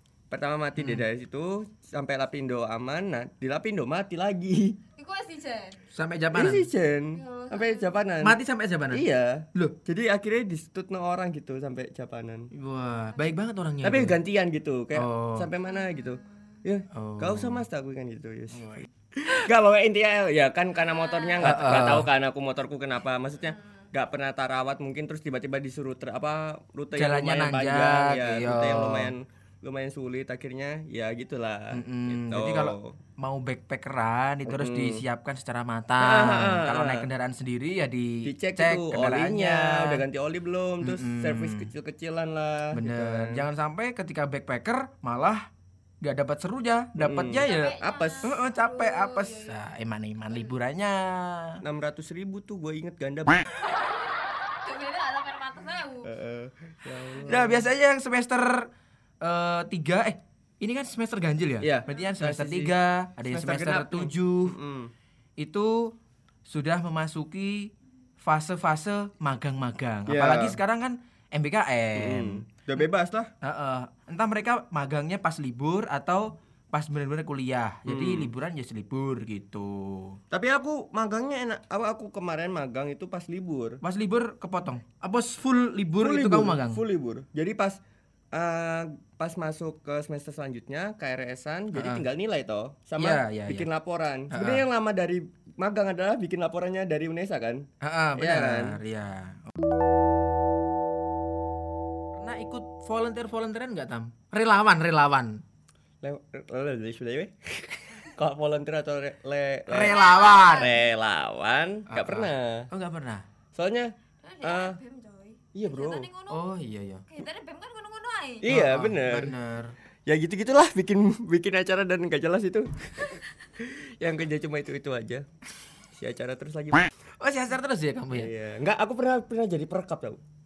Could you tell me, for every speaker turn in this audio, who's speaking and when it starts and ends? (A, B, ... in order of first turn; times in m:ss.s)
0:00.3-0:04.8 A
0:00.8-0:01.0 B
0:05.0-0:05.8 C
0:05.9-0:06.7 B
0:06.3-0:08.4 A
0:07.1-0:08.0 C
0:08.2-0:09.8 B
0:08.9-0:12.5 A
0:12.5-0:14.2 B
0:13.8-0:33.0 A
0:14.9-0:15.5 B
0:15.7-0:16.1 C
0:16.9-0:17.6 B
0:18.5-0:18.8 B
0:20.9-0:21.5 C
0:21.4-0:22.1 B
0:26.9-0:29.1 B
0:31.7-0:40.0 B
0:34.5-0:35.0 A
0:36.0-0:37.1 A
0:38.2-0:43.4 A
0:40.8-0:41.7 B
0:42.7-0:45.5 B
0:46.0-0:51.6 B
0:47.0-0:48.3 A
0:47.4-0:49.6 C
0:51.6-0:53.4 A
0:54.6-0:56.1 C
0:56.0-0:57.6 A
0:57.2-0:58.7 B
0:59.2-1:04.6 B
1:01.6-1:04.9 A
1:05.4-1:05.9 B
1:06.4-1:12.4 B
1:10.1-1:10.6 A
1:12.0-1:13.3 A
1:13.4-1:20.2 B
1:17.8-1:18.3 A
1:20.3-1:23.8 A
1:23.8-1:26.8 B
1:26.0-1:27.8 A
1:28.3-1:38.8 A
1:31.7-1:32.0 B
1:33.0-1:33.7 B
1:34.3-1:34.6 B
1:37.8-1:39.6 B
1:42.1-1:45.4 B
1:46.0-1:50.0 A
1:49.7-1:50.7 B
1:49.8-1:50.8 C
1:50.5-1:52.7 A
1:51.9-1:53.2 B
1:53.5-1:53.9 A
1:54.2-1:56.4 C
1:54.4-1:54.8 A
1:55.5-1:56.1 A
1:56.3-1:57.0 B
1:57.1-1:58.5 C
1:58.4-1:59.3 A
1:58.5-1:59.7 B
2:00.1-2:05.2 A
2:06.0-2:06.9 A
2:07.2-2:08.3 B
2:08.1-2:10.2 A